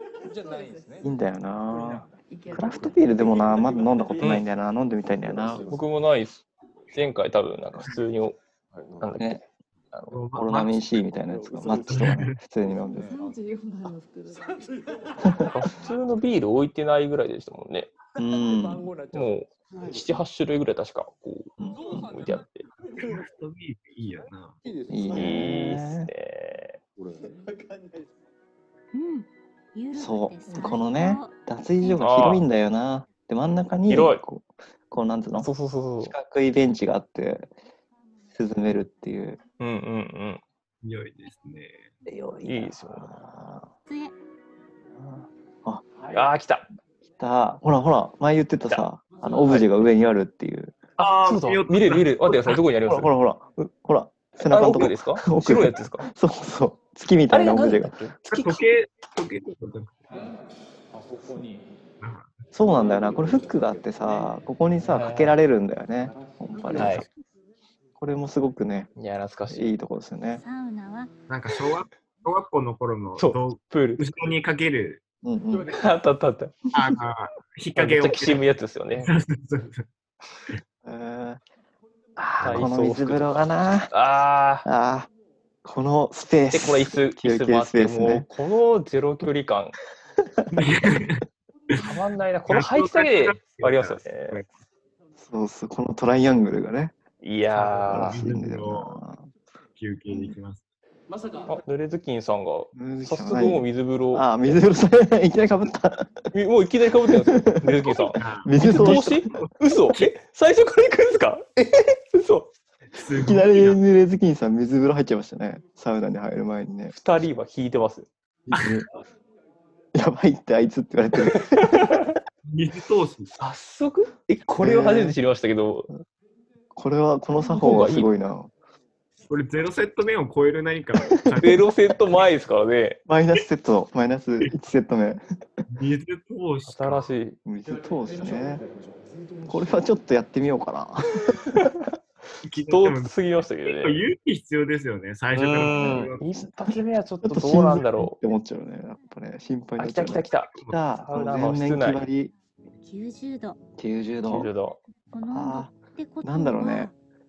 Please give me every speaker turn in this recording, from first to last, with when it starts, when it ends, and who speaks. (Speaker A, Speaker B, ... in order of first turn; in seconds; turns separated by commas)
Speaker A: 0.1-1.2, Speaker B: 0.3-1.2, Speaker C: 1.0-5.8, Speaker A: 1.7-2.1, Speaker B: 2.2-4.3, Speaker A: 2.6-4.5, Speaker D: 4.2-4.5, Speaker A: 5.2-5.8, Speaker D: 5.7-8.4, Speaker D: 9.0-9.4, Speaker C: 9.2-9.4, Speaker D: 9.9-10.3, Speaker E: 10.1-10.8, Speaker C: 10.3-13.2, Speaker A: 11.3-13.4, Speaker E: 11.9-12.4, Speaker B: 13.1-15.3, Speaker A: 14.4-15.9, Speaker D: 15.5-17.9, Speaker C: 18.2-18.9, Speaker A: 18.2-20.2, Speaker D: 19.1-22.7, Speaker C: 21.6-22.1, Speaker A: 21.7-23.3, Speaker E: 22.9-24.6, Speaker A: 24.6-25.6, Speaker C: 24.9-26.1, Speaker D: 25.1-26.8, Speaker A: 27.0-28.1, Speaker F: 28.9-32.2, Speaker C: 30.0-37.5, Speaker B: 30.5-30.8, Speaker D: 32.0-32.5, Speaker D: 33.9-34.2, Speaker D: 35.4-36.1, Speaker C: 38.3-39.4, Speaker D: 39.6-40.4, Speaker E: 40.8-41.9, Speaker C: 42.1-43.7, Speaker D: 42.5-43.2, Speaker F: 43.9-44.1, Speaker C: 45.0-45.8, Speaker D: 46.1-46.7, Speaker C: 47.2-50.8, Speaker A: 49.2-49.5, Speaker D: 49.4-49.9, Speaker D: 51.0-53.1, Speaker E: 51.0-52.6, Speaker C: 52.9-58.0, Speaker D: 54.4-56.1, Speaker D: 57.3-58.6, Speaker E: 58.3-60.3, Speaker A: 60.1-60.4, Speaker A: 60.9-61.7, Speaker E: 62.0-62.3, Speaker C: 62.5-67.1, Speaker A: 62.7-64.3, Speaker D: 64.8-65.4, Speaker A: 66.0-67.0, Speaker D: 66.8-67.1, Speaker C: 68.0-68.9, Speaker D: 69.0-69.8, Speaker C: 69.5-70.4, Speaker F: 70.3-71.1, Speaker E: 71.3-75.0, Speaker D: 73.2-74.1, Speaker C: 75.2-75.8, Speaker A: 75.5-76.0, Speaker D: 75.7-76.7, Speaker E: 76.7-79.8, Speaker D: 77.7-79.1, Speaker C: 80.8-81.4, Speaker C: 82.2-83.9, Speaker D: 82.4-84.7, Speaker C: 84.7-85.1, Speaker C: 85.7-88.3, Speaker D: 86.5-89.8, Speaker E: 90.5-91.2, Speaker D: 91.8-94.4, Speaker E: 92.5-94.5, Speaker C: 95.2-96.9, Speaker D: 97.2-98.2, Speaker E: 97.5-99.0, Speaker C: 97.9-99.3, Speaker E: 99.8-100.7, Speaker C: 100.1-100.4, Speaker A: 101.1-101.6, Speaker D: 101.5-104.5, Speaker C: 102.7-106.3, Speaker D: 106.3-112.5, Speaker C: 107.4-109.3, Speaker E: 108.2-110.1, Speaker E: 112.9-113.8, Speaker C: 113.2-116.9, Speaker D: 116.9-118.1, Speaker C: 118.5-118.9, Speaker E: 118.6-118.8, Speaker C: 120.0-122.0, Speaker D: 121.7-122.1, Speaker E: 122.5-123.3, Speaker D: 123.4-125.9, Speaker C: 124.6-125.2, Speaker C: 126.8-128.5, Speaker D: 127.5-128.1, Speaker E: 129.3-131.6, Speaker C: 131.0-131.5, Speaker D: 131.4-133.0, Speaker C: 133.1-135.2, Speaker E: 135.7-137.1, Speaker D: 136.7-137.4, Speaker C: 137.4-138.6, Speaker A: 137.6-139.9, Speaker C: 139.5-141.8, Speaker E: 142.4-146.2, Speaker D: 142.7-144.0, Speaker D: 145.3-148.2, Speaker C: 145.7-152.3, Speaker D: 149.8-152.1, Speaker E: 150.6-150.8, Speaker F: 152.8-153.6, Speaker C: 153.8-154.5, Speaker D: 154.3-154.8, Speaker F: 155.1-156.9, Speaker C: 155.3-155.7, Speaker C: 156.2-156.9